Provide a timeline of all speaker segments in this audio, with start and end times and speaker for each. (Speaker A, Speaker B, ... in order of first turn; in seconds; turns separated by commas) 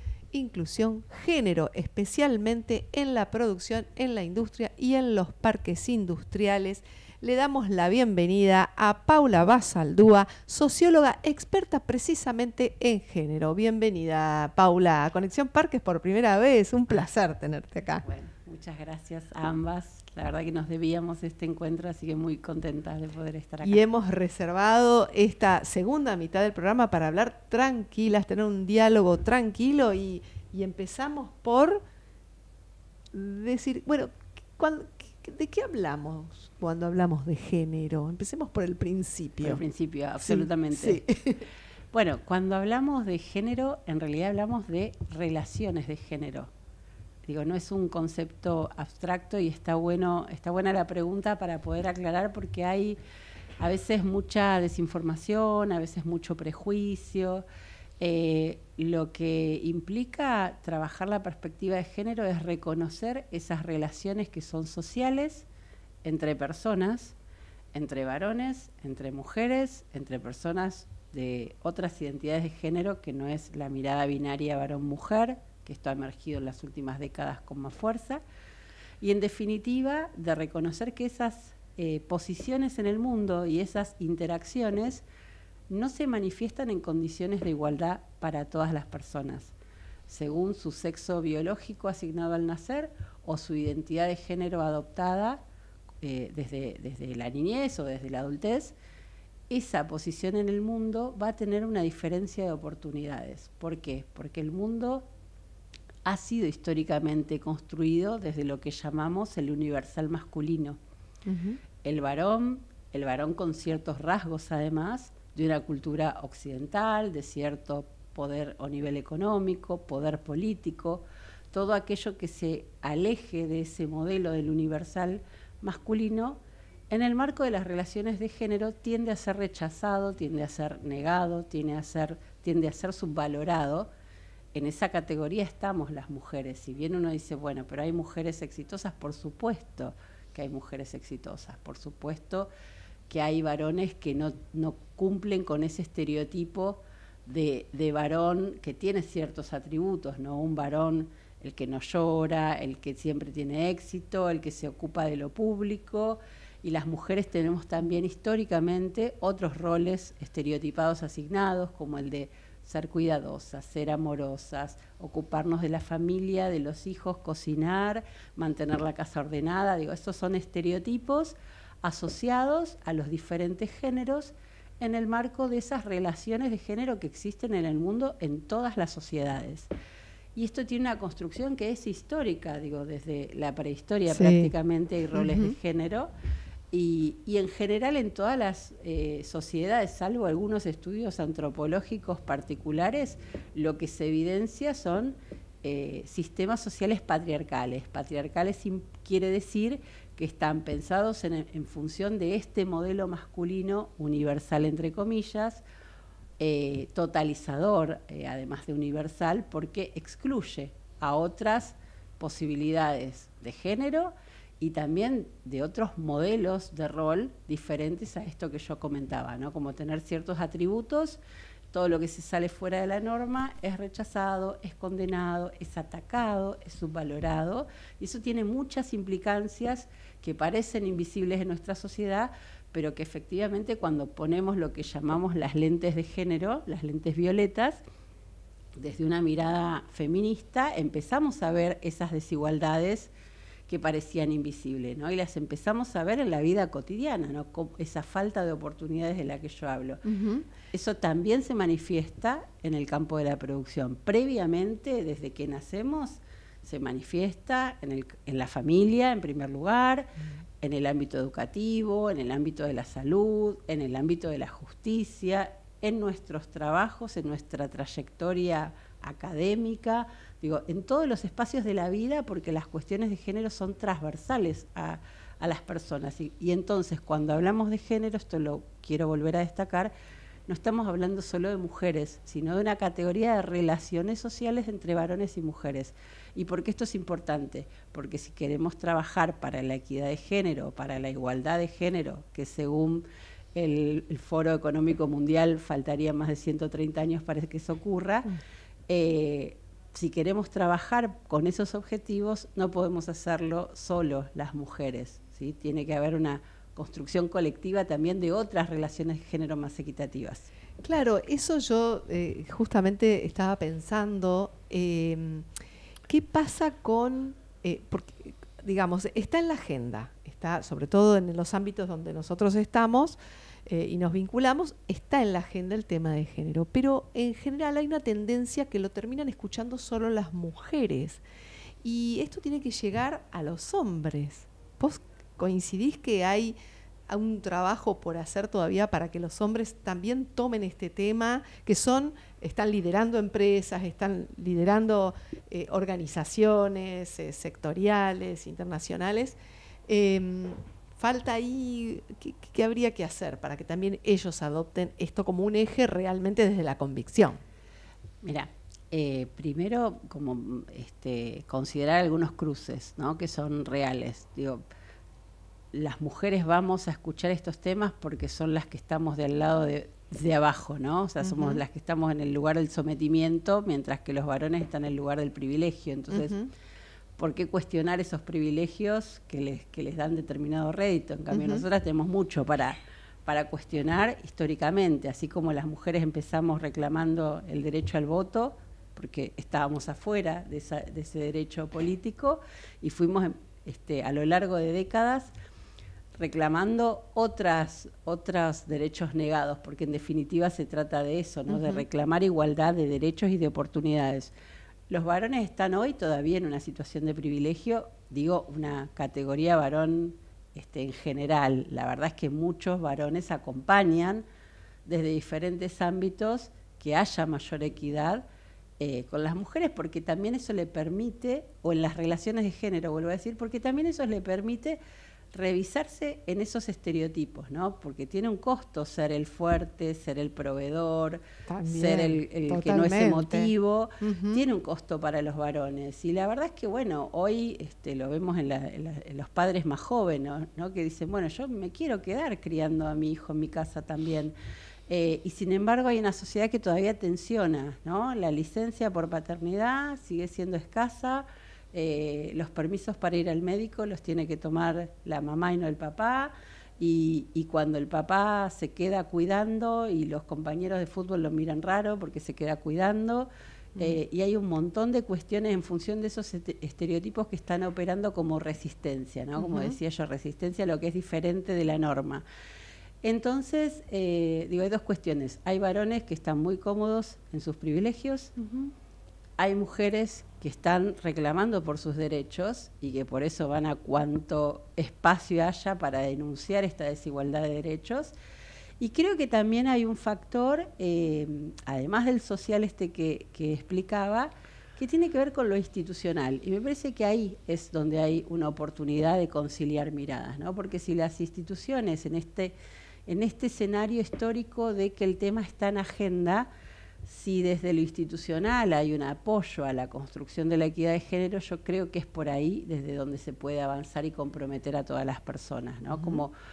Speaker A: 0.3-18.0, Speaker B: 18.0-23.8, Speaker A: 23.6-31.8, Speaker A: 33.1-39.6, Speaker B: 39.4-41.0, Speaker A: 40.2-41.4, Speaker B: 41.9-46.5, Speaker B: 47.2-53.0, Speaker B: 53.6-57.4, Speaker B: 58.0-65.5, Speaker B: 66.0-67.2, Speaker B: 67.7-78.2, Speaker B: 79.0-85.0, Speaker B: 85.7-89.5, Speaker B: 90.1-95.4, Speaker B: 96.0-98.7, Speaker B: 99.5-105.0, Speaker B: 106.0-110.8, Speaker A: 111.2-111.6, Speaker B: 111.8-133.9, Speaker B: 134.5-142.5, Speaker B: 143.1-179.7, Speaker B: 180.3-186.1, Speaker A: 184.1-184.5, Speaker A: 185.1-185.6, Speaker B: 186.7-205.6, Speaker B: 206.4-221.2, Speaker B: 221.7-237.8, Speaker B: 238.8-243.1, Speaker B: 243.7-250.0, Speaker A: 250.0-250.5, Speaker B: 250.7-279.9, Speaker B: 280.5-298.3, Speaker B: 298.9-310.5, Speaker A: 310.8-315.5, Speaker A: 316.1-331.2, Speaker A: 331.8-336.6, Speaker A: 337.1-349.4, Speaker A: 349.9-357.4, Speaker B: 358.2-364.6, Speaker B: 365.7-376.4, Speaker A: 371.2-371.6, Speaker A: 376.1-376.5, Speaker B: 377.2-395.3, Speaker A: 381.3-381.6, Speaker B: 396.1-404.3, Speaker A: 401.5-401.8, Speaker B: 404.9-414.2, Speaker B: 414.8-418.2, Speaker B: 418.8-424.8, Speaker B: 425.3-444.3, Speaker A: 431.5-434.4, Speaker B: 444.9-472.2, Speaker B: 473.0-478.3, Speaker B: 479.4-488.1, Speaker B: 488.8-502.5, Speaker B: 503.1-506.5, Speaker B: 507.0-516.3